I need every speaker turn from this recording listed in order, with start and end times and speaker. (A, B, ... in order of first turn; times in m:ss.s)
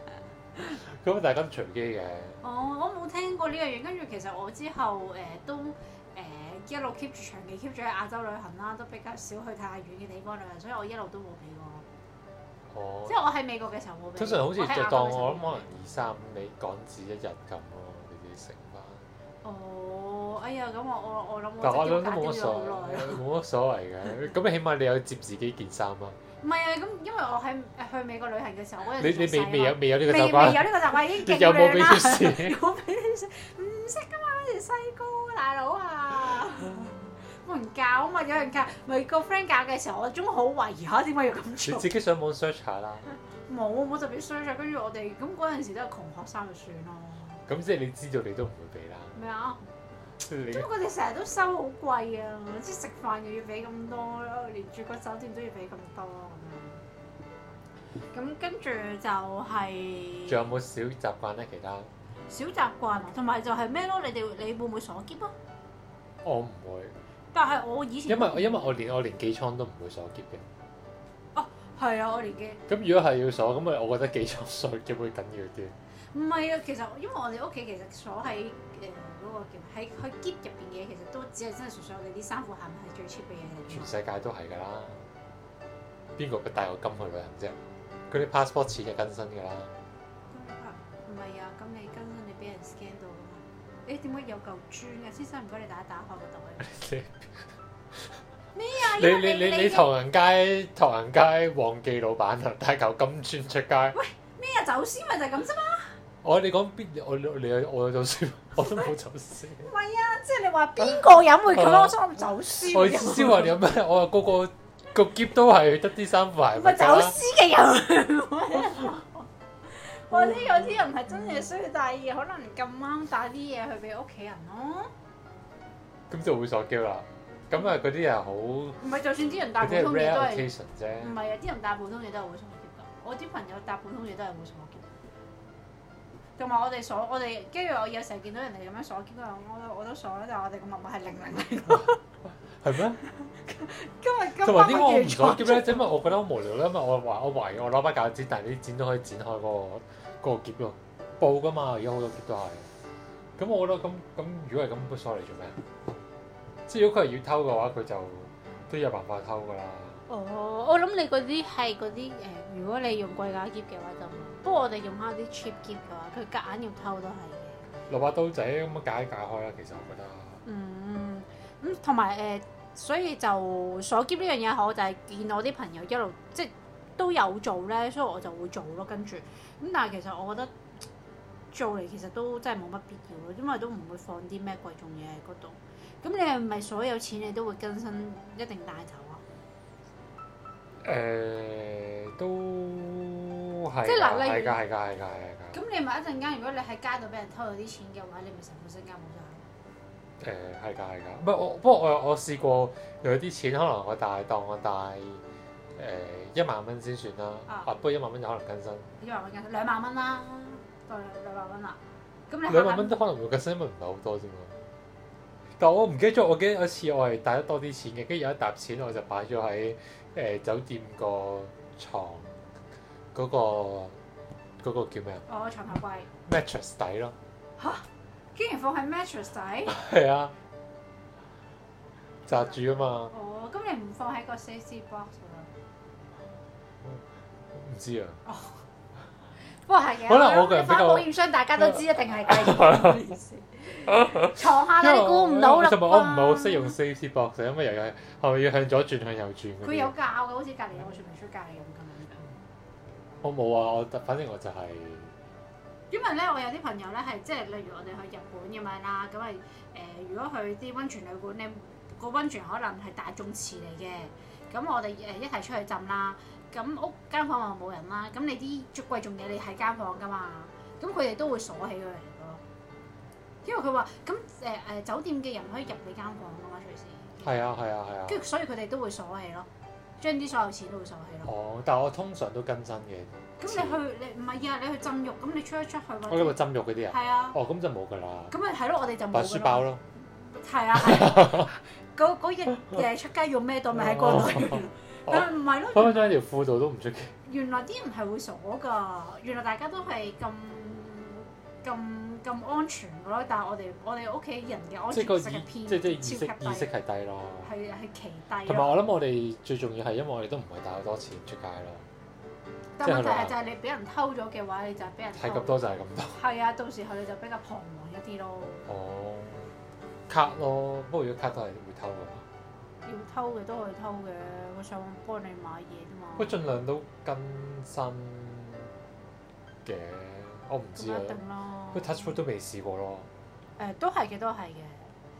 0:00.6-0:02.4 A
0:02.4-0:11.8 B
0:12.7-0:13.2 A
0:13.1-0:15.7 B
0:14.2-0:19.0 A
0:19.4-0:23.2 B
0:21.6-0:26.2 A
0:26.4-0:41.9 B
0:29.0-0:32.6 A
0:41.6-0:43.0 A
0:43.5-0:47.4 B
0:47.5-0:49.2 A
0:49.2-0:49.7 B
0:50.2-0:50.7 A
0:50.5-0:56.8 B
0:58.1-1:00.4 B
1:00.3-1:01.9 A
1:02.3-1:05.4 B
1:06.2-1:07.0 A
1:07.3-1:08.8 B
1:08.1-1:10.5 A
1:11.4-1:12.6 B
1:12.7-1:15.8 A
1:16.1-1:23.9 B
1:23.7-1:25.0 A
1:26.2-1:27.6 A
1:28.1-1:29.7 A
1:30.3-1:36.7 B
1:36.6-1:37.3 A
1:38.5-1:39.9 B
1:38.8-1:44.0 A
1:43.9-1:46.0 B
1:46.2-1:49.7 A
1:49.6-1:53.6 B
1:51.0-1:52.0 A
1:52.5-1:57.2 A
1:56.5-2:04.9 B
2:00.1-2:00.8 A
2:06.1-2:08.8 A
2:08.8-2:14.9 B
2:09.6-2:11.2 A
2:16.4-2:22.0 B
2:22.6-2:23.0 A
2:23.0-2:26.0 B
2:24.4-2:32.7 A
2:33.4-2:35.6 A
2:36.7-2:40.0 A
2:40.1-2:47.6 B
2:47.9-2:50.4 A
2:50.4-3:00.5 B
3:01.5-3:09.2 B
3:10.8-3:15.6 A
3:13.8-3:14.6 B
3:15.5-3:19.5 B
3:20.2-3:25.2 A
3:25.8-3:28.9 A
3:29.0-3:33.0 B
3:32.5-3:34.5 A
3:35.6-3:42.4 A
3:43.1-3:44.0 A
3:44.6-3:45.2 A
3:45.3-3:46.1 B
3:46.3-3:47.2 A
3:47.6-3:49.8 B
3:49.7-3:50.3 A
3:52.3-3:53.1 A
3:53.1-3:55.5 B
3:57.5-3:58.2 A
3:58.3-3:58.6 B
3:59.6-4:06.8 B
4:00.1-4:03.0 A
4:04.0-4:09.9 A
4:09.6-4:12.4 B
4:13.2-4:15.2 A
4:15.9-4:32.4 B
4:33.4-4:37.4 B
4:37.2-4:38.2 A
4:38.1-4:39.5 B
4:40.0-4:41.3 B
4:41.2-4:43.8 A
4:43.4-4:47.4 B
4:46.1-4:48.3 A
4:48.3-4:56.2 B
4:49.1-4:49.8 A
4:50.8-4:51.5 A
4:53.7-4:57.2 A
4:57.3-5:06.7 B
5:04.9-5:07.5 A
5:07.4-5:08.8 B
5:08.5-5:11.9 A
5:12.8-5:15.6 B
5:12.8-5:13.3 A
5:15.2-5:16.2 A
5:16.1-5:18.7 B
5:18.7-5:19.5 A
5:20.1-5:22.3 A
5:22.8-5:26.4 B
5:26.2-5:28.7 A
5:29.6-5:31.2 A
5:30.8-5:32.2 B
5:31.7-5:33.1 A
5:33.6-5:34.9 B